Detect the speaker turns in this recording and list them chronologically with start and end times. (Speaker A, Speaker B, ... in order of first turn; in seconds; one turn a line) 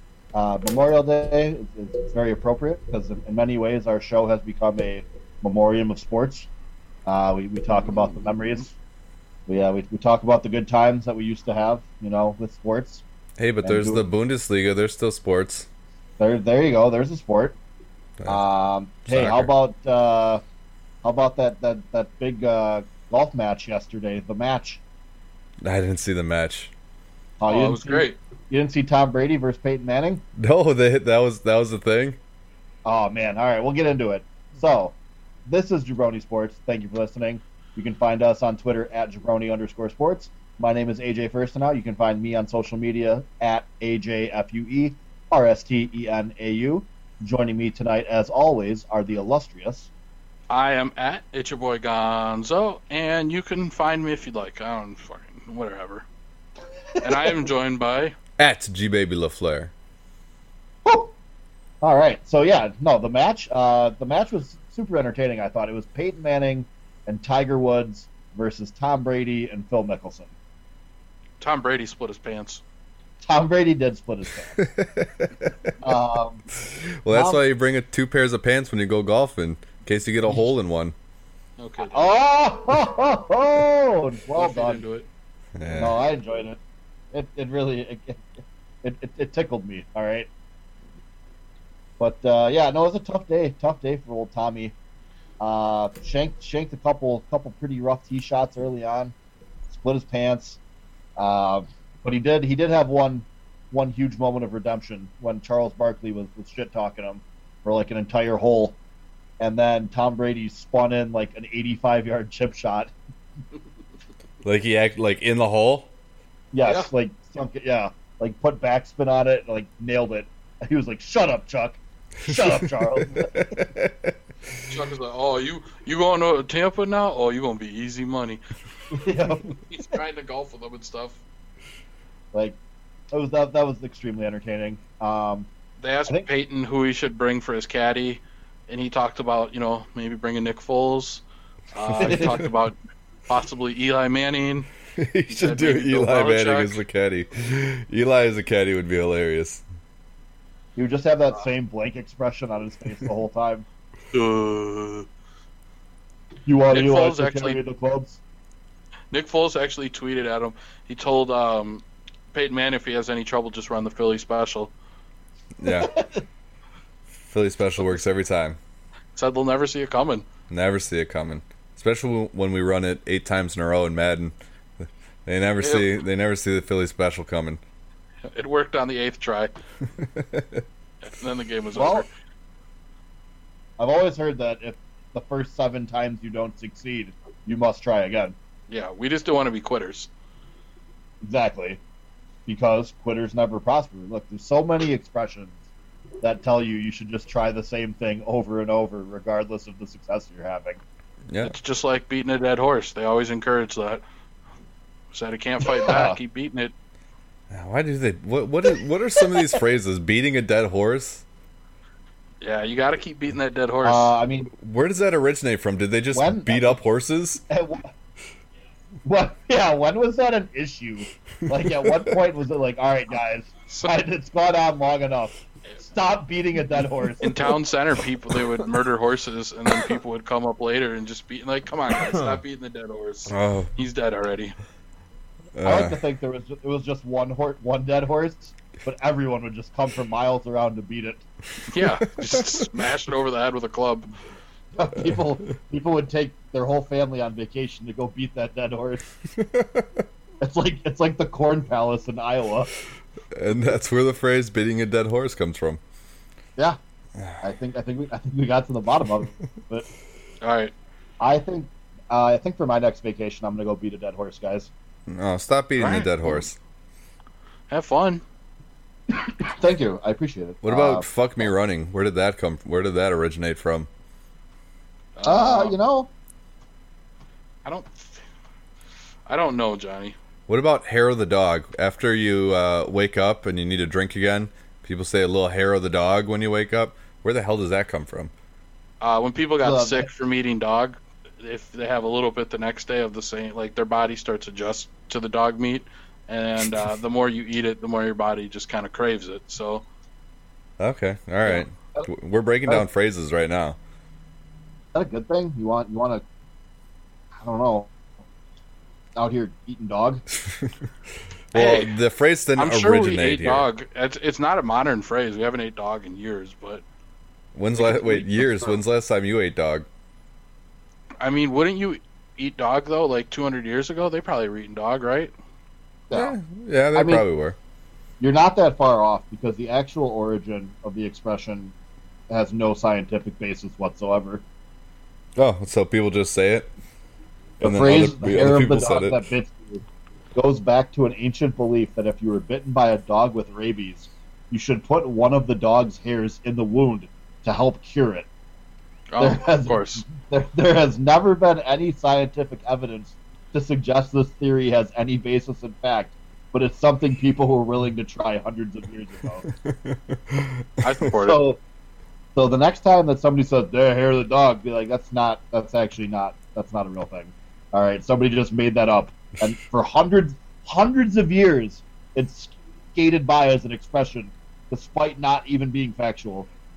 Speaker A: 0.3-6.5
Speaker A: 7.1-8.8
Speaker A: 9.5-13.0
Speaker B: 13.4-15.7
Speaker A: 13.6-14.1
Speaker A: 16.2-17.6
Speaker A: 18.3-20.4
Speaker B: 19.1-19.5
Speaker A: 21.0-24.8
Speaker B: 25.6-26.7
Speaker A: 27.4-30.2
Speaker C: 27.5-28.2
Speaker B: 30.4-32.2
Speaker A: 32.9-35.0
Speaker A: 35.5-49.9
Speaker C: 50.5-56.1
Speaker A: 57.0-57.3
Speaker C: 57.0-58.1
Speaker B: 58.4-59.7
Speaker A: 60.9-61.1
Speaker A: 61.8-70.3
Speaker C: 71.4-72.6
Speaker A: 73.2-74.6
Speaker B: 74.6-75.7
Speaker A: 75.8-76.4
Speaker B: 76.6-81.0
Speaker A: 77.1-77.4
Speaker C: 81.6-82.1
Speaker A: 81.9-84.8
Speaker C: 84.3-85.1
Speaker B: 85.6-86.0
Speaker A: 85.7-86.6
Speaker A: 87.1-88.3
Speaker A: 88.8-90.3
Speaker A: 92.0-94.7
Speaker A: 95.4-99.1
Speaker A: 99.7-100.6
Speaker A: 101.2-108.8
Speaker A: 109.4-112.9
Speaker B: 114.4-115.9
Speaker A: 116.5-123.7
Speaker B: 122.3-124.6
Speaker C: 124.7-128.4
Speaker A: 128.9-129.5
Speaker C: 129.7-131.2
Speaker A: 132.3-132.6
Speaker A: 133.1-135.5
Speaker C: 135.8-142.8
Speaker B: 142.0-142.4
Speaker A: 142.0-142.4
Speaker C: 143.3-144.7
Speaker B: 145.0-149.6
Speaker C: 145.3-146.8
Speaker A: 150.8-153.7
Speaker C: 154.1-155.1
Speaker A: 156.5-158.2
Speaker C: 156.7-157.6
Speaker C: 159.1-164.7
Speaker B: 165.6-165.9
Speaker A: 165.6-166.2
Speaker B: 167.3-168.6
Speaker C: 169.2-170.3
Speaker B: 170.5-174.3
Speaker B: 175.3-177.6
Speaker C: 175.6-175.9
Speaker C: 178.3-179.5
Speaker B: 180.0-180.6
Speaker C: 181.0-182.1
Speaker A: 181.8-182.1
Speaker A: 183.8-188.4
Speaker C: 188.7-190.1
Speaker A: 191.2-191.8
Speaker A: 192.5-195.6
Speaker A: 196.2-200.8
Speaker C: 201.4-204.0
Speaker C: 205.1-206.7
Speaker A: 205.7-206.2
Speaker B: 207.5-211.2
Speaker C: 212.4-214.1
Speaker A: 213.8-214.5
Speaker B: 214.5-217.4
Speaker A: 216.1-216.8
Speaker A: 217.5-217.9
Speaker A: 219.0-227.6
Speaker B: 221.7-222.1
Speaker C: 227.2-234.6
Speaker B: 232.0-232.4
Speaker B: 233.3-233.7
Speaker B: 235.6-236.0
Speaker A: 235.6-241.2
Speaker C: 241.7-244.1
Speaker B: 241.8-242.7
Speaker A: 244.8-249.1
Speaker B: 249.3-249.9
Speaker A: 250.4-252.7
Speaker B: 253.3-255.8
Speaker A: 257.4-259.9
Speaker C: 260.4-260.7
Speaker A: 261.2-264.7
Speaker B: 265.1-266.6
Speaker C: 265.8-266.1
Speaker C: 267.7-268.2
Speaker A: 269.2-271.1
Speaker B: 270.6-273.9
Speaker C: 275.2-275.8
Speaker A: 275.2-276.1
Speaker C: 277.6-278.2
Speaker C: 279.3-280.2
Speaker B: 280.5-288.3
Speaker C: 289.0-299.9
Speaker A: 289.6-290.1
Speaker B: 300.8-303.8
Speaker A: 301.4-302.1
Speaker A: 304.9-306.2
Speaker A: 307.4-307.9
Speaker A: 309.2-310.2
Speaker B: 310.4-310.8
Speaker B: 311.5-313.7
Speaker C: 311.5-311.9
Speaker C: 312.6-316.8
Speaker B: 317.5-319.9
Speaker A: 317.8-318.7
Speaker C: 321.2-325.3
Speaker A: 326.1-326.4
Speaker B: 326.1-327.6
Speaker A: 326.9-327.2
Speaker A: 328.2-331.7
Speaker A: 332.3-334.4
Speaker B: 335.4-336.7
Speaker B: 337.6-339.2
Speaker A: 337.6-339.8
Speaker A: 340.4-348.3
Speaker C: 349.1-350.0
Speaker A: 349.2-359.5
Speaker B: 359.5-360.7
Speaker C: 360.8-361.4
Speaker A: 361.2-361.6
Speaker A: 362.4-376.5